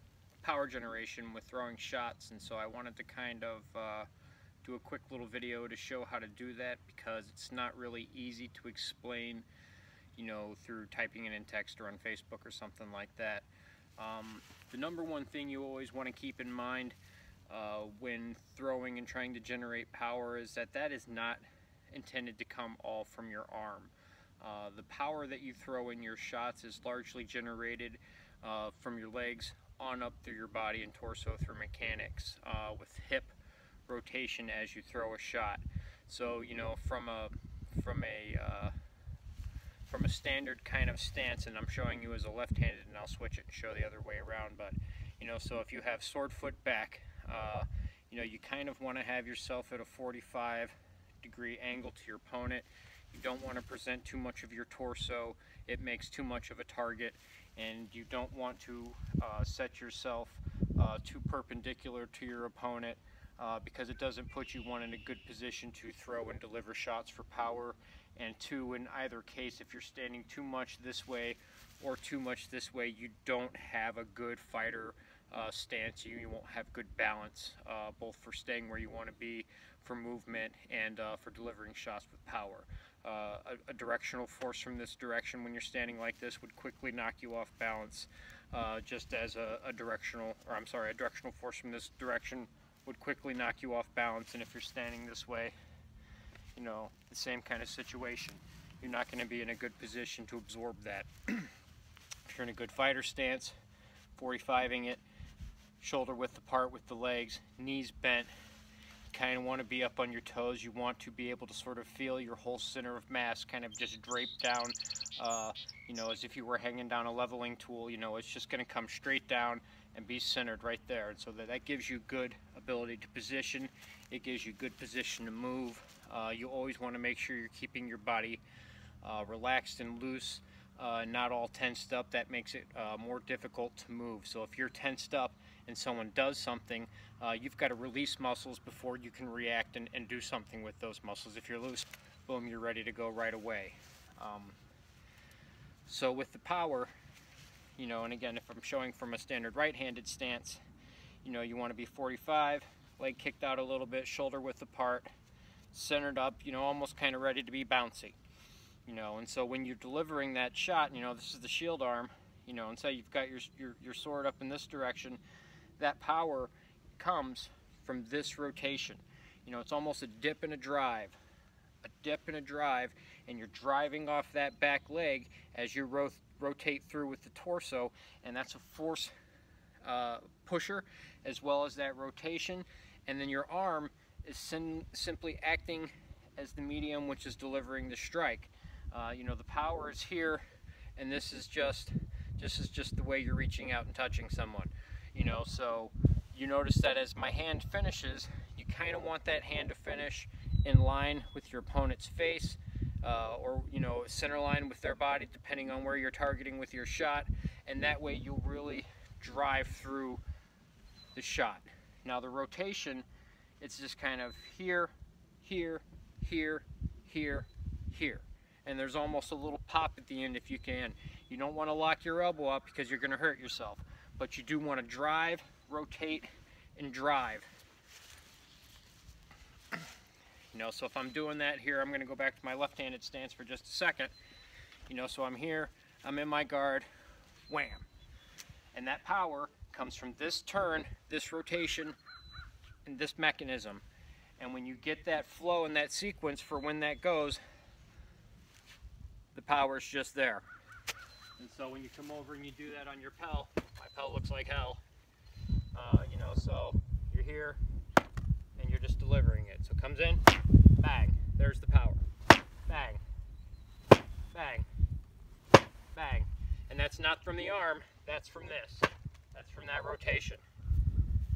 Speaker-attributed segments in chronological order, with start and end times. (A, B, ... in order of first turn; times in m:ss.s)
0:00.4-0:04.1 A
0:04.6-0:09.4 A
0:10.2-0:13.4 A
0:14.0-0:17.0 A
0:17.5-0:33.3 A
0:33.9-0:38.7 A
0:39.9-1:35.5 A
1:36.5-1:41.5 A
1:42.2-1:43.5 A
1:44.2-1:45.0 A
1:45.8-1:48.3 A
1:49.1-2:08.4 A
2:09.0-2:24.6 A
2:25.8-2:26.9 A
2:27.8-2:30.6 A
2:31.2-2:35.1 A
2:35.7-2:38.2 A
2:38.8-2:45.2 A
2:45.8-2:51.2 A
2:51.8-2:59.1 A
2:59.8-3:10.4 A
3:11.0-3:30.2 A
3:31.1-3:33.0 A
3:33.6-3:34.9 A
3:35.4-3:47.5 A
3:50.5-3:54.1 A
3:54.9-3:56.9 A
3:57.5-3:57.8 A
3:58.7-4:02.0 A
4:02.8-4:03.8 A
4:04.4-4:07.4 A
4:09.3-4:10.4 A
4:11.4-4:14.8 A
4:15.7-4:17.6 A
4:18.6-4:20.2 A
4:20.8-4:22.0 A
4:22.7-4:23.0 A
4:24.3-4:24.6 A
4:25.9-4:30.4 A